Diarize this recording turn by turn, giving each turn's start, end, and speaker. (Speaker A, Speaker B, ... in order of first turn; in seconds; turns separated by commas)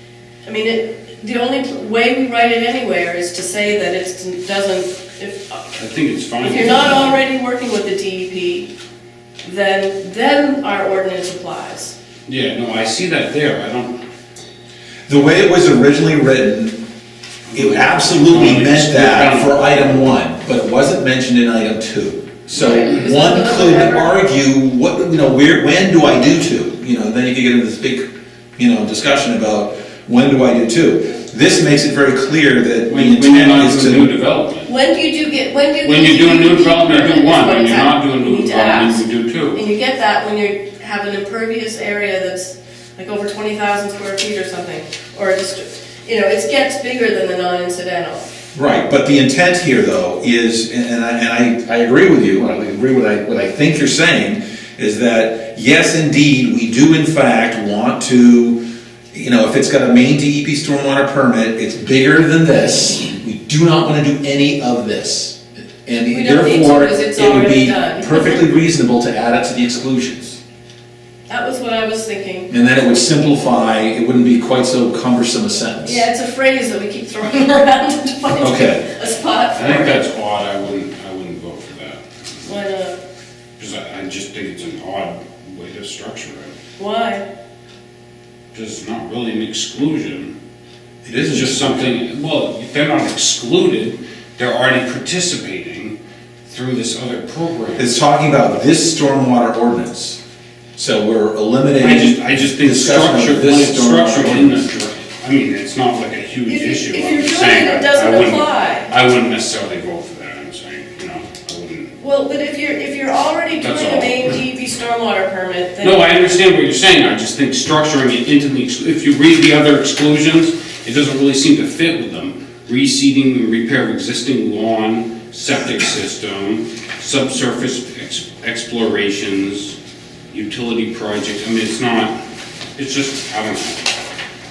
Speaker A: 0.4-5.7, Speaker B: 5.7-7.2, Speaker A: 6.4-8.7, Speaker A: 9.4-11.9, Speaker B: 12.3-13.9, Speaker C: 15.1-16.8, Speaker B: 17.5-20.1, Speaker C: 17.5-34.1, Speaker A: 22.5-24.1, Speaker B: 32.9-34.7, Speaker A: 34.6-48.3, Speaker B: 35.8-39.6, Speaker C: 48.5-58.6, Speaker C: 59.1-70.4, Speaker A: 66.1-68.4, Speaker A: 71.3-72.5, Speaker C: 72.5-76.0, Speaker A: 75.8-80.0, Speaker C: 78.4-78.8, Speaker B: 79.5-82.5, Speaker A: 82.4-83.0, Speaker B: 83.6-86.5, Speaker A: 86.8-87.2, Speaker B: 88.5-90.3, Speaker C: 91.0-91.8, Speaker B: 91.1-96.0, Speaker B: 96.5-97.9, Speaker C: 97.8-100.2, Speaker C: 100.8-104.6, Speaker B: 101.8-111.9, Speaker A: 106.5-108.9, Speaker A: 112.0-116.0, Speaker B: 113.6-114.3, Speaker B: 115.8-129.8, Speaker B: 130.3-132.1, Speaker B: 132.8-133.9